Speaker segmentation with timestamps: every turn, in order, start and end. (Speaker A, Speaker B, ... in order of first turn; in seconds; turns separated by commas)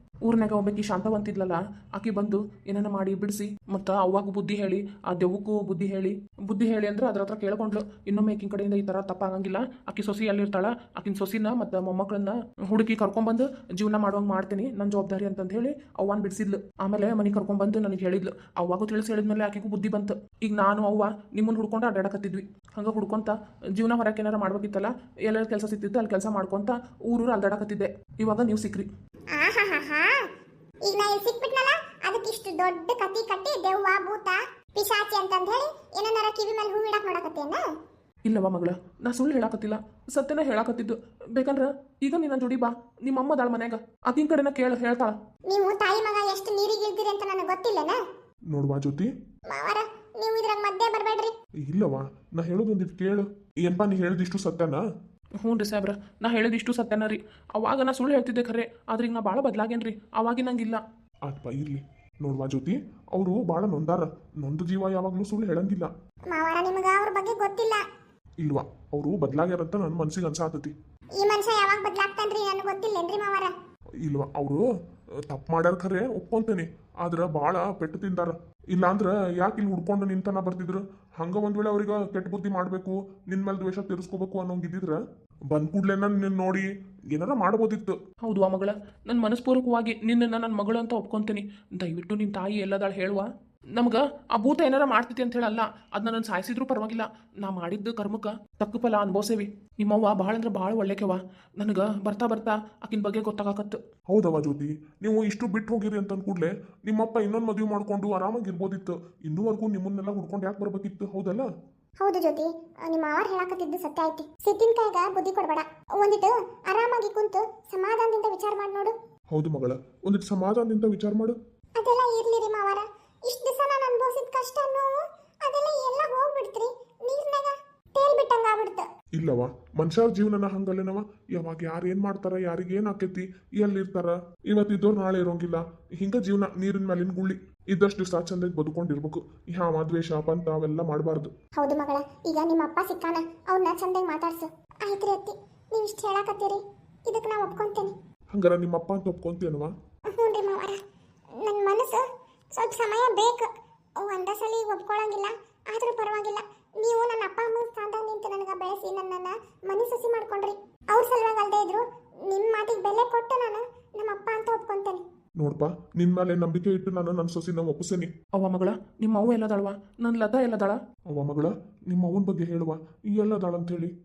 Speaker A: 0.2-28.9, Speaker B: 29.3-30.3, Speaker B: 30.9-37.6, Speaker A: 38.3-45.1, Speaker B: 45.5-48.0, Speaker C: 48.5-49.1, Speaker B: 49.5-51.3, Speaker C: 51.6-54.8, Speaker A: 55.4-60.8, Speaker C: 61.3-65.9, Speaker B: 66.3-67.8, Speaker C: 68.4-70.7, Speaker B: 71.2-73.5, Speaker C: 74.0-74.6, Speaker C: 75.3-88.0, Speaker A: 88.2-103.8, Speaker C: 104.1-111.5, Speaker B: 112.0-119.0, Speaker C: 119.3-121.4, Speaker B: 121.8-128.9, Speaker C: 129.2-141.3, Speaker B: 141.6-147.9, Speaker C: 148.3-149.7, Speaker B: 150.1-150.8, Speaker B: 151.4-152.0, Speaker B: 152.6-165.0, Speaker C: 165.4-168.1, Speaker A: 168.4-170.8, Speaker C: 171.1-173.9